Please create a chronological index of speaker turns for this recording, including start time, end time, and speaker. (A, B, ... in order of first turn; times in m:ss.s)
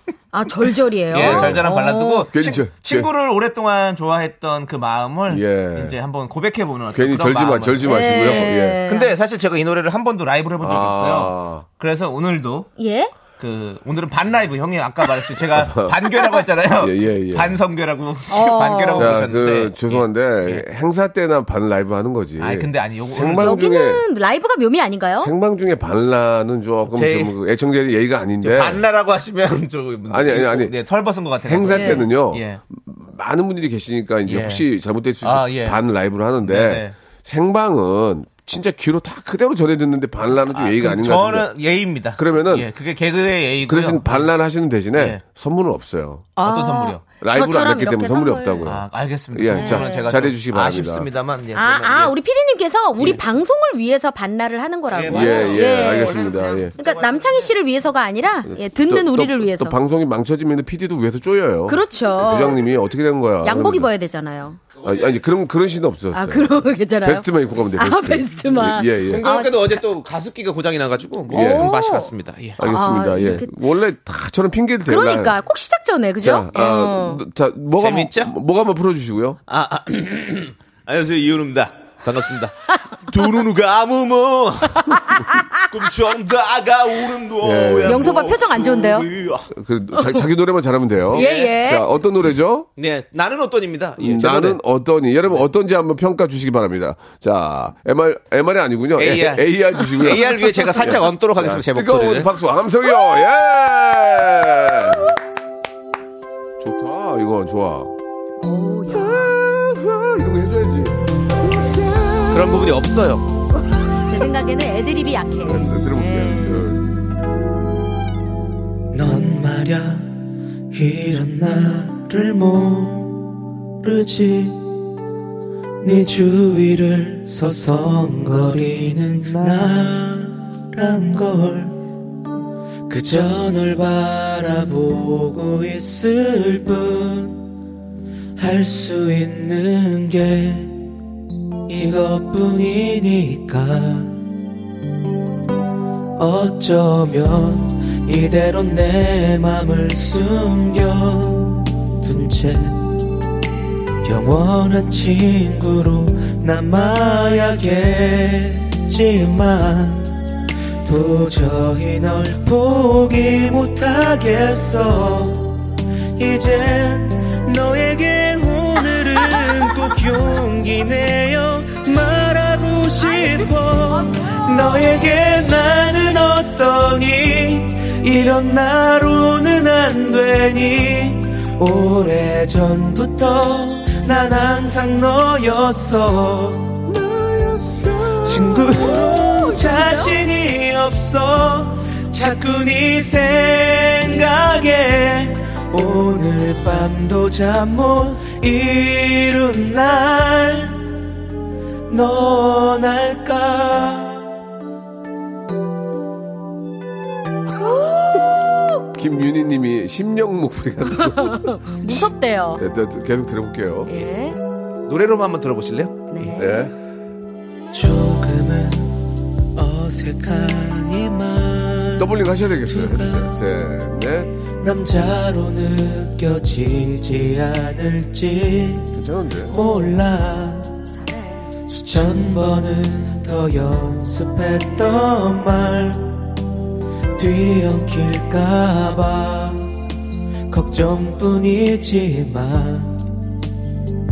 0:00.3-0:02.3 A
0:01.1-0:12.7 B
0:01.1-0:01.7 C
0:02.3-0:03.1 C
0:05.3-0:05.9 C
0:06.9-0:08.8 C
0:07.8-0:09.1 A
0:10.6-0:11.6 C
0:12.8-0:13.1 A
0:13.4-0:20.6 B
0:15.5-0:16.0 C
0:16.8-0:17.6 C
0:18.3-0:19.1 A
0:18.9-0:24.0 C
0:22.4-0:23.5 B
0:23.4-0:25.3 A
0:25.2-0:28.8 C
0:26.9-0:27.3 B
0:28.4-0:32.6 B
0:30.1-0:30.7 C
0:31.4-0:41.5 C
0:31.7-0:32.0 A
0:34.3-0:34.6 B
0:35.2-0:35.8 B
0:36.4-0:36.9 B
0:40.5-0:44.3 B
0:42.2-0:42.7 C
0:43.7-0:46.3 C
0:45.0-0:45.2 B
0:46.4-0:48.7 A
0:46.4-0:47.0 B
0:47.2-0:51.1 C
0:48.6-0:52.1 B
0:49.5-0:50.1 A
0:51.5-0:56.2 A
0:54.9-0:57.5 B
0:55.1-0:56.7 C
0:56.8-0:59.7 A
0:58.5-1:03.9 C
1:01.7-1:02.6 A
1:03.4-1:04.6 A
1:04.8-1:09.2 C
1:06.1-1:09.8 A
1:09.1-1:12.6 B
1:11.3-1:11.7 C
1:11.3-1:12.1 A
1:12.6-1:15.4 C
1:12.6-1:13.5 A
1:14.9-1:17.2 A
1:16.2-1:19.4 C
1:17.8-1:18.3 B
1:19.5-1:22.5 B
1:23.1-1:25.1 B
1:24.9-1:25.6 A
1:25.6-1:29.5 B
1:27.4-1:28.1 C
1:27.9-1:29.1 A
1:29.5-1:32.7 C
1:29.9-1:30.2 A
1:31.1-1:31.6 B
1:31.1-1:31.8 A
1:32.8-1:34.6 B
1:34.0-1:45.0 C
1:39.0-1:42.3 B
1:46.6-1:47.9 C
1:48.4-1:49.4 A
1:48.9-1:52.7 C
1:52.3-1:53.2 B
1:54.1-1:56.7 A
1:55.4-1:56.9 C
1:58.9-2:00.1 D
2:00.7-2:04.6 D
2:05.8-2:11.8 D
2:12.9-2:17.4 D
2:18.4-2:20.8 D
2:21.7-2:24.2 D
2:26.2-2:32.9 D
2:34.0-2:40.2 D
2:40.8-3:06.8 D
2:53.0-2:55.0 A
3:06.8-3:08.7 C
3:08.2-3:20.9 D
3:08.8-3:10.2 A
3:21.9-3:24.3 D
3:27.6-3:28.2 C
3:28.9-3:34.0 C
3:30.9-3:32.6 A
3:33.9-3:34.4 A
3:34.9-3:36.0 B
3:36.1-3:36.6 A
3:36.4-3:36.7 C
3:37.7-3:42.1 D
3:42.0-3:44.3 C
3:42.6-3:43.3 D
3:44.6-3:48.9 D
3:48.9-3:49.6 C
3:49.5-3:50.7 D
3:51.0-3:51.4 A
3:51.7-3:56.2 D
3:57.2-3:59.7 D
4:00.5-4:03.0 D